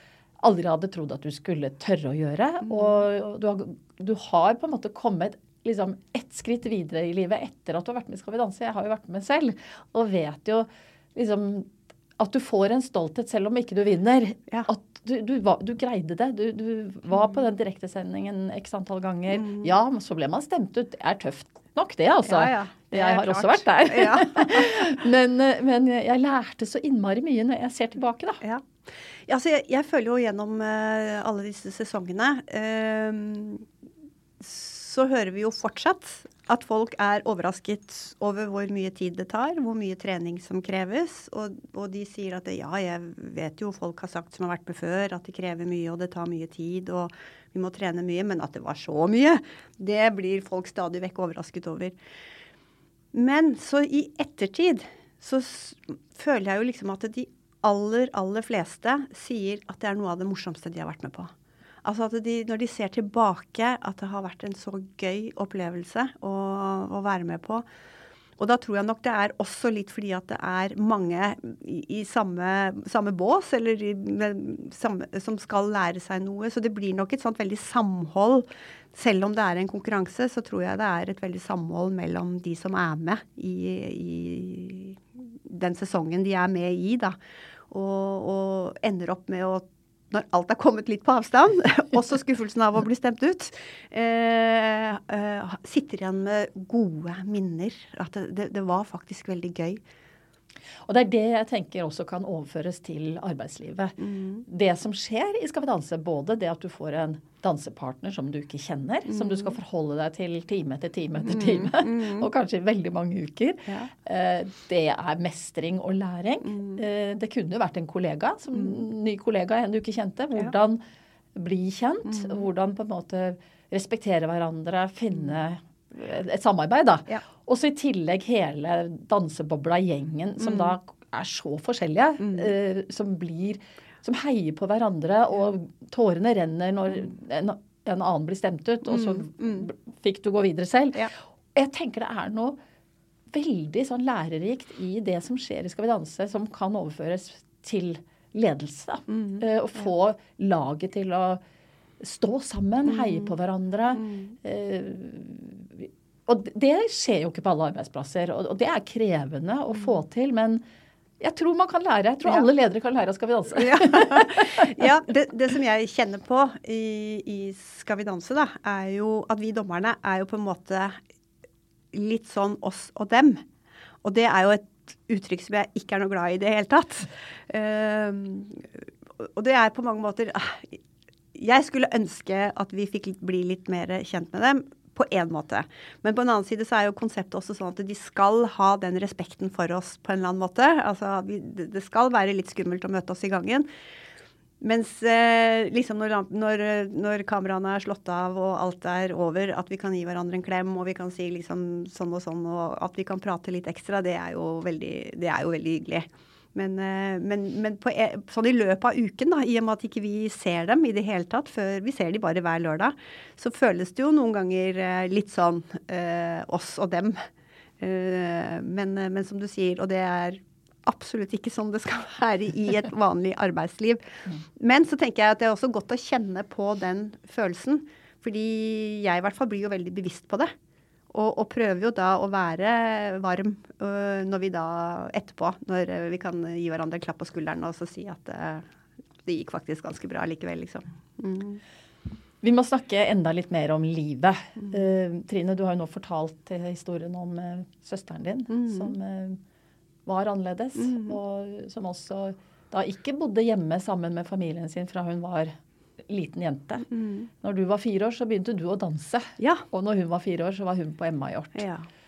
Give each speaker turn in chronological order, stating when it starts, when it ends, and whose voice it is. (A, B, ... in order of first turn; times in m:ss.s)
0:00.4-0:28.4 A
0:19.3-0:19.7 B
0:22.3-0:24.8 B
0:29.2-0:33.6 B
0:34.4-0:51.9 B
0:53.1-1:01.3 B
1:01.8-1:07.6 B
1:08.4-1:27.2 B
1:27.7-1:39.8 B
1:40.9-2:00.8 A
1:44.0-1:44.4 B
1:49.1-1:49.5 B
1:51.2-1:52.3 B
1:56.5-1:56.8 B
2:01.4-2:22.6 A
2:02.1-2:02.4 B
2:10.4-2:10.7 B
2:12.2-2:12.5 B
2:18.9-2:19.6 B
2:23.3-2:31.4 A
2:29.1-2:29.4 B
2:32.0-2:40.6 A
2:32.9-2:33.3 B
2:33.9-2:34.3 B
2:41.2-2:44.8 A
2:43.6-2:51.0 B
2:51.9-2:53.4 B
2:54.0-2:58.7 B
2:59.2-3:00.8 B
3:01.3-3:13.7 B
3:14.6-3:37.2 B
3:37.8-3:44.0 B
3:44.6-3:50.5 B
3:51.1-3:58.6 B
3:59.2-4:01.6 B
4:02.4-4:09.4 A
4:08.5-4:08.9 B
4:10.0-4:15.5 A
4:10.8-4:11.2 B
4:16.1-4:16.9 A
4:16.9-4:17.3 B
4:17.4-4:21.6 A
4:19.4-4:19.6 B
4:21.6-4:21.8 B